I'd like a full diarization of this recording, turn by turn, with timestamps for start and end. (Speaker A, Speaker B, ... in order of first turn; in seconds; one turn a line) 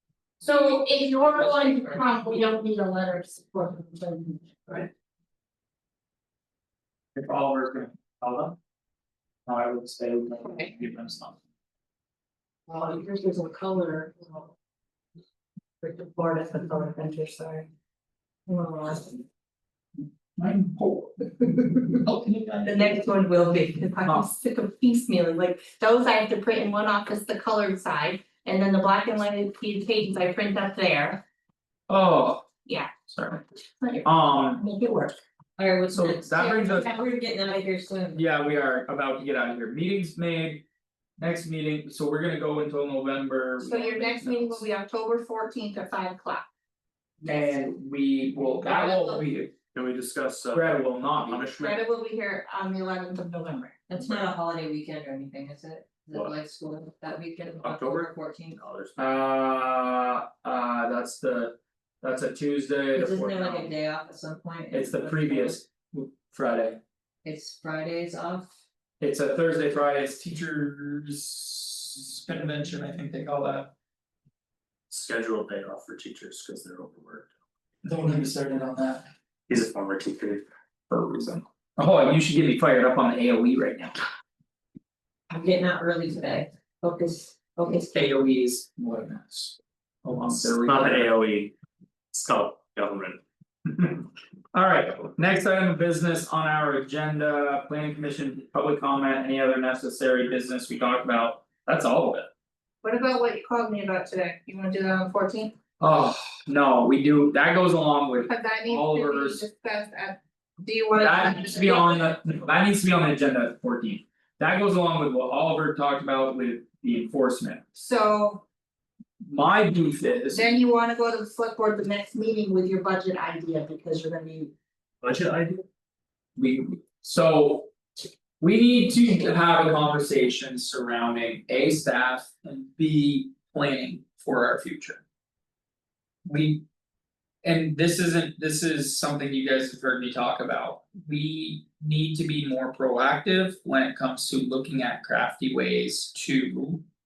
Speaker A: 0.4-4.9
Speaker B: 0.5-2.1
Speaker C: 7.2-8.6
Speaker C: 9.4-11.4
Speaker A: 10.4-10.7
Speaker A: 12.7-14.5
Speaker A: 15.8-17.7
Speaker A: 18.5-19.1
Speaker C: 20.4-21.2
Speaker C: 22.0-23.0
Speaker A: 22.6-31.2
Speaker C: 31.9-32.5
Speaker A: 32.6-32.9
Speaker C: 33.1-33.4
Speaker A: 33.8-35.2
Speaker C: 34.0-34.6
Speaker B: 35.6-38.2
Speaker C: 35.9-36.9
Speaker C: 38.1-40.6
Speaker C: 41.2-44.6
Speaker A: 43.6-46.4
Speaker C: 47.2-49.5
Speaker A: 48.7-49.2
Speaker D: 49.7-50.7
Speaker C: 50.5-51.5
Speaker D: 51.2-51.8
Speaker A: 51.6-53.8
Speaker B: 53.9-58.6
Speaker D: 57.6-59.0
Speaker C: 59.0-63.7
Speaker B: 62.9-65.6
Speaker C: 64.7-66.8
Speaker B: 67.2-68.5
Speaker C: 69.0-73.7
Speaker D: 74.9-77.3
Speaker C: 77.8-79.0
Speaker D: 79.5-80.4
Speaker C: 80.9-83.9
Speaker B: 85.3-88.1
Speaker C: 87.9-91.1
Speaker D: 90.3-91.5
Speaker D: 92.1-93.2
Speaker C: 93.7-102.3
Speaker A: 102.8-105.5
Speaker C: 105.8-109.4
Speaker A: 108.2-112.1
Speaker C: 110.9-117.7
Speaker A: 117.7-118.4
Speaker C: 119.3-120.5
Speaker A: 120.3-124.5
Speaker D: 125.0-125.6
Speaker C: 126.4-127.7
Speaker C: 128.4-135.0
Speaker C: 136.2-136.6
Speaker C: 137.4-146.8